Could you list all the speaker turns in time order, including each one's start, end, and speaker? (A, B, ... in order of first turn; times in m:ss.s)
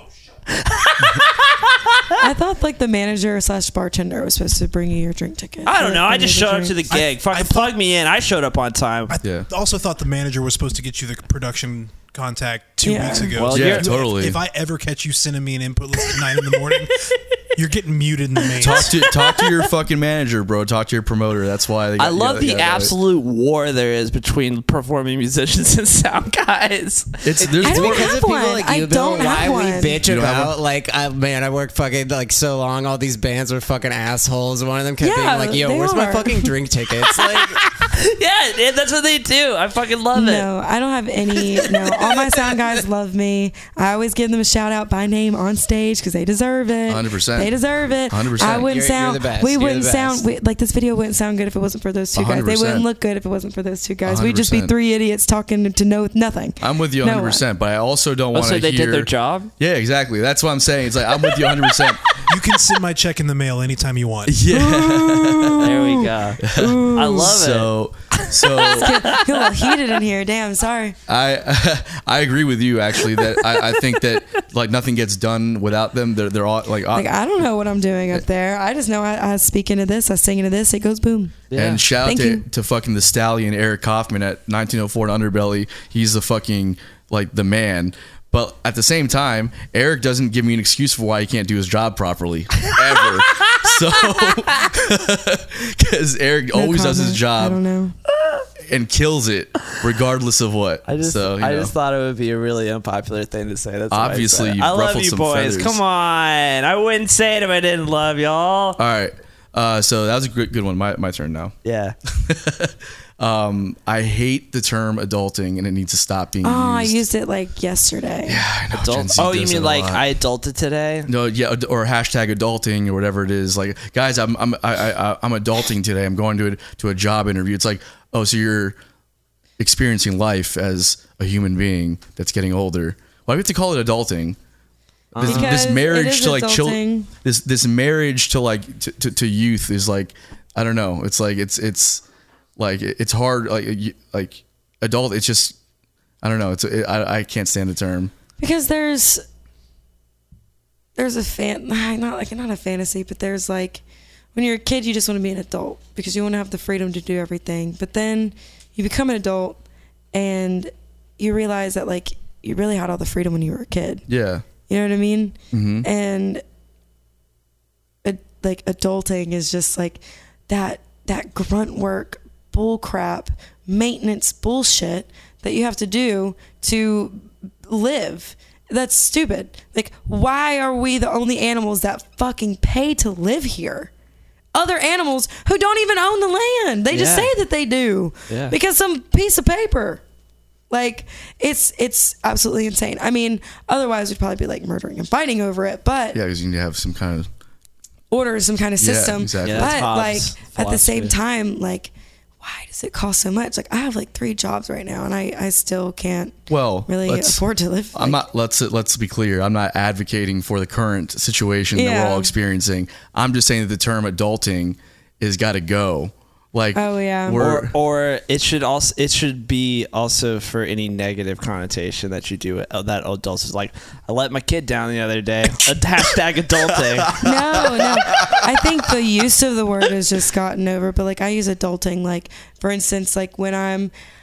0:00.5-0:02.2 A
0:02.2-0:06.8 B
0:05.6-0:09.1 A
0:06.9-0:07.7 C
0:09.1-0:18.9 C
0:09.2-0:09.5 D
0:12.8-0:13.4 B
0:13.4-0:13.9 A
0:13.5-0:14.4 D
0:18.6-0:19.7 A
0:18.6-0:22.9 D
0:22.0-0:27.4 A
0:27.2-0:28.1 D
0:27.4-0:37.6 E
0:27.6-0:30.0 B
0:30.0-0:30.5 D
0:35.0-0:36.5 B
0:37.1-0:40.5 A
0:40.1-0:57.4 B
0:41.5-0:42.6 A
0:46.9-0:47.6 D
0:48.1-0:48.7 D
0:48.5-0:50.2 E
0:52.1-0:52.8 D
0:54.0-0:54.7 D
0:56.6-1:02.1 D
0:58.3-0:59.5 A
1:01.3-1:02.2 A
1:02.3-1:04.5 C
1:04.2-1:05.7 D
1:04.5-1:07.4 B
1:05.6-1:09.8 A
1:06.4-1:08.9 D
1:08.6-1:11.0 B
1:11.1-1:17.1 D
1:16.9-1:21.4 B
1:21.5-1:21.8 A
1:21.5-1:37.6 D
1:22.0-1:22.4 B
1:33.1-1:33.7 A
1:36.5-1:38.0 B
1:38.1-1:38.4 A
1:38.7-1:41.7 D
1:40.8-1:48.8 A
1:43.9-1:45.8 D
1:48.8-1:51.5 D
1:51.6-1:52.0 A
1:52.1-1:57.0 D
1:56.4-1:58.4 B
1:58.2-2:00.0 D
1:58.7-2:01.1 A
2:01.1-2:08.8 D
2:09.6-2:14.4 D
2:15.1-2:22.0 D
2:15.1-2:15.6 A
2:15.2-2:17.1 B
2:22.6-2:25.6 D
2:26.2-2:28.1 D
2:28.4-2:29.2 B
2:31.0-2:33.8 B
2:34.3-2:39.6 B
2:40.1-2:44.0 B
2:44.1-2:44.4 D
2:44.7-2:46.4 B
2:45.5-2:45.9 D
2:48.0-3:03.9 B
3:04.5-3:10.0 B
3:06.9-3:07.3 A
3:08.3-3:08.6 A
3:10.7-3:16.2 B
3:16.1-3:17.3 D
3:18.1-3:28.2 B
3:18.8-3:19.7 D
3:19.4-3:21.1 A
3:26.5-3:27.4 D
3:27.9-3:37.7 D
3:31.7-3:32.3 B
3:36.7-3:37.4 B
3:37.3-3:47.3 A
3:47.2-3:53.9 B
3:47.2-3:48.4 D